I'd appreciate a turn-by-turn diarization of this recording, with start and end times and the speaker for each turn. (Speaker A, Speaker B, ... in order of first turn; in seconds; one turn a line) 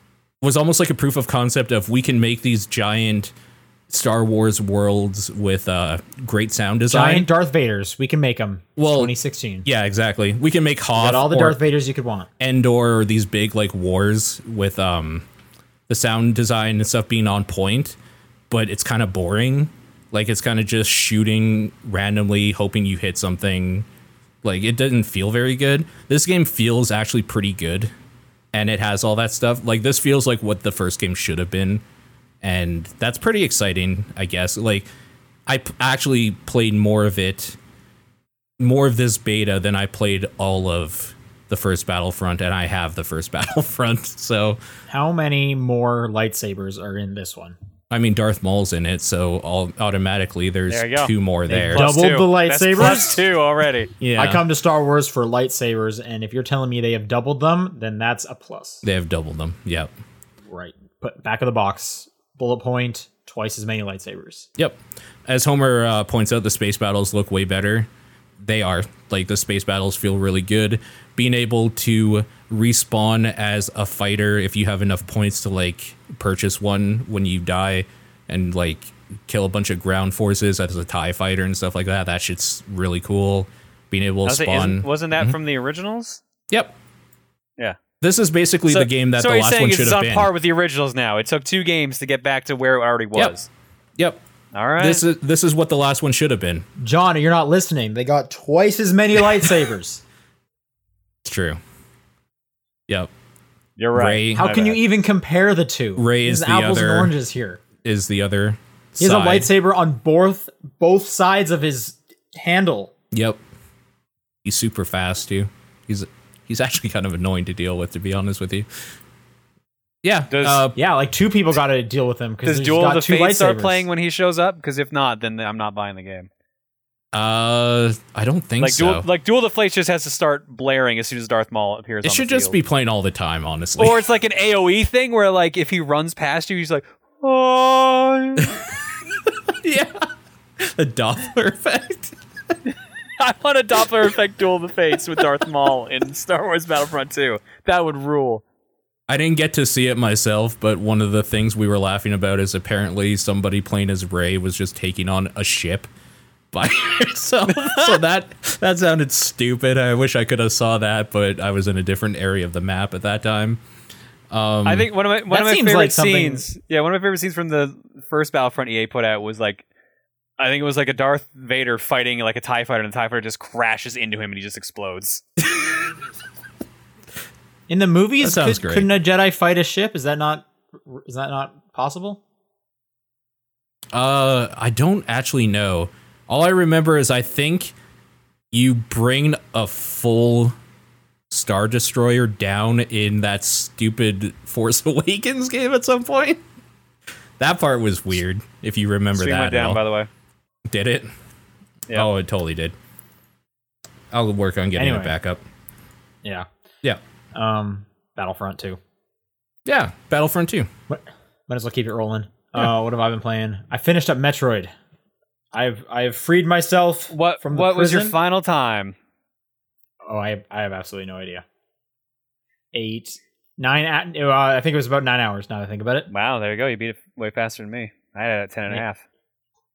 Speaker A: 0.4-3.3
Speaker A: 3.9-7.3
Speaker B: 6.9-9.7
Speaker A: 8.8-9.1
Speaker A: 9.7-11.6
Speaker B: 11.0-12.3
Speaker A: 12.4-15.3
Speaker A: 15.9-18.0
Speaker A: 18.5-23.9
Speaker A: 24.4-27.9
Speaker A: 28.5-31.8
Speaker A: 32.4-34.9
Speaker A: 35.5-37.6
Speaker A: 38.6-44.6
Speaker B: 44.9-47.6
Speaker A: 47.9-51.9
Speaker C: 50.7-51.1
Speaker B: 51.5-53.2
Speaker C: 51.7-53.9
Speaker A: 54.0-54.4
Speaker B: 54.1-58.8
Speaker A: 58.8-59.9
Speaker B: 60.5-64.5
Speaker A: 64.6-85.4
Speaker C: 84.3-86.2
Speaker A: 88.0-90.3
Speaker C: 88.7-93.5
Speaker C: 94.5-95.0
Speaker A: 94.8-96.7
Speaker B: 96.8-100.0
Speaker A: 101.2-101.6
Speaker C: 103.8-104.8
Speaker A: 104.0-104.4
Speaker B: 104.3-107.6
Speaker A: 106.0-107.1
Speaker A: 107.8-109.5
Speaker B: 109.0-112.9
Speaker A: 113.1-113.4
Speaker A: 114.4-118.7
Speaker A: 120.0-120.8
Speaker C: 120.3-120.7
Speaker B: 120.8-123.9
Speaker C: 122.4-126.3
Speaker A: 127.1-129.1
Speaker C: 128.6-132.6
Speaker A: 132.0-134.0
Speaker C: 133.8-138.6
Speaker A: 139.5-140.1
Speaker A: 140.6-142.2
Speaker C: 142.7-148.4
Speaker A: 149.1-155.9
Speaker A: 156.5-163.6
Speaker A: 164.3-164.9
Speaker C: 164.7-169.7
Speaker B: 165.3-166.5
Speaker C: 170.4-175.2
Speaker B: 177.7-182.2
Speaker A: 178.2-178.9
Speaker A: 183.9-187.7
Speaker A: 188.5-190.5
Speaker A: 191.3-196.4
Speaker A: 197.4-199.8
Speaker C: 199.2-200.1
Speaker A: 200.7-201.1
Speaker A: 201.9-202.7
Speaker A: 204.1-205.4
Speaker B: 204.8-205.2
Speaker B: 207.3-208.8
Speaker A: 209.7-210.7
Speaker B: 210.9-214.7
Speaker B: 215.5-218.2
Speaker C: 217.1-218.9
Speaker B: 220.1-221.4
Speaker B: 222.7-226.1
Speaker C: 226.1-229.0